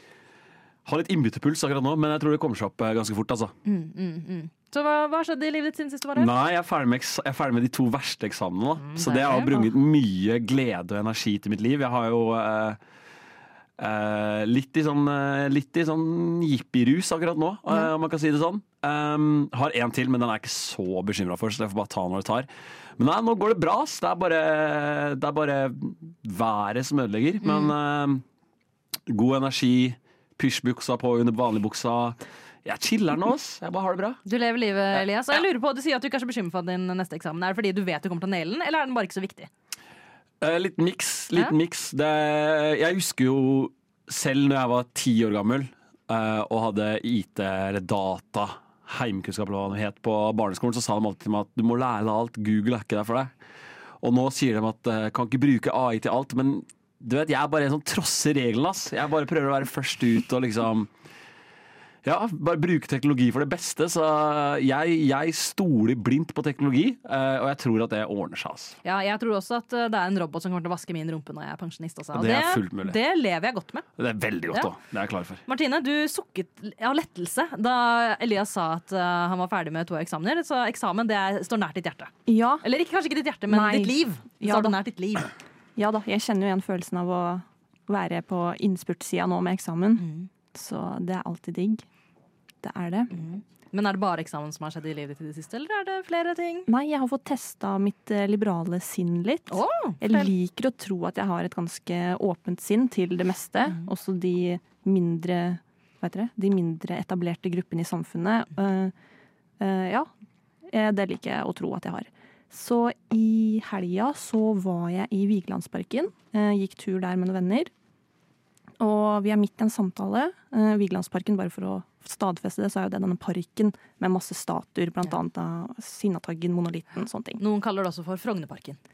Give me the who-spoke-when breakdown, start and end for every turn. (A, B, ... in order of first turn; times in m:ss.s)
0:00.8-0:03.5 A
0:03.6-0:06.3 B
0:06.2-0:12.8 A
0:08.8-0:09.6 B
0:13.8-0:28.2 A
0:27.4-0:27.7 B
0:29.1-0:34.2 A
0:34.3-0:39.5 B
0:40.4-0:53.3 A
0:54.0-1:00.9 A
1:02.0-1:08.8 A
1:08.8-1:13.8 B
1:12.1-1:13.0 A
1:14.0-1:15.4 A
1:15.5-1:25.3 B
1:22.3-1:22.6 C
1:23.5-1:24.8 C
1:25.8-1:31.8 C
1:30.0-1:30.3 B
1:32.6-1:33.1 C
1:33.1-1:36.7 B
1:36.7-1:48.9 C
1:39.5-1:40.3 B
1:49.6-1:50.1 C
1:50.7-1:57.7 C
1:58.8-2:07.4 C
2:07.4-2:08.8 B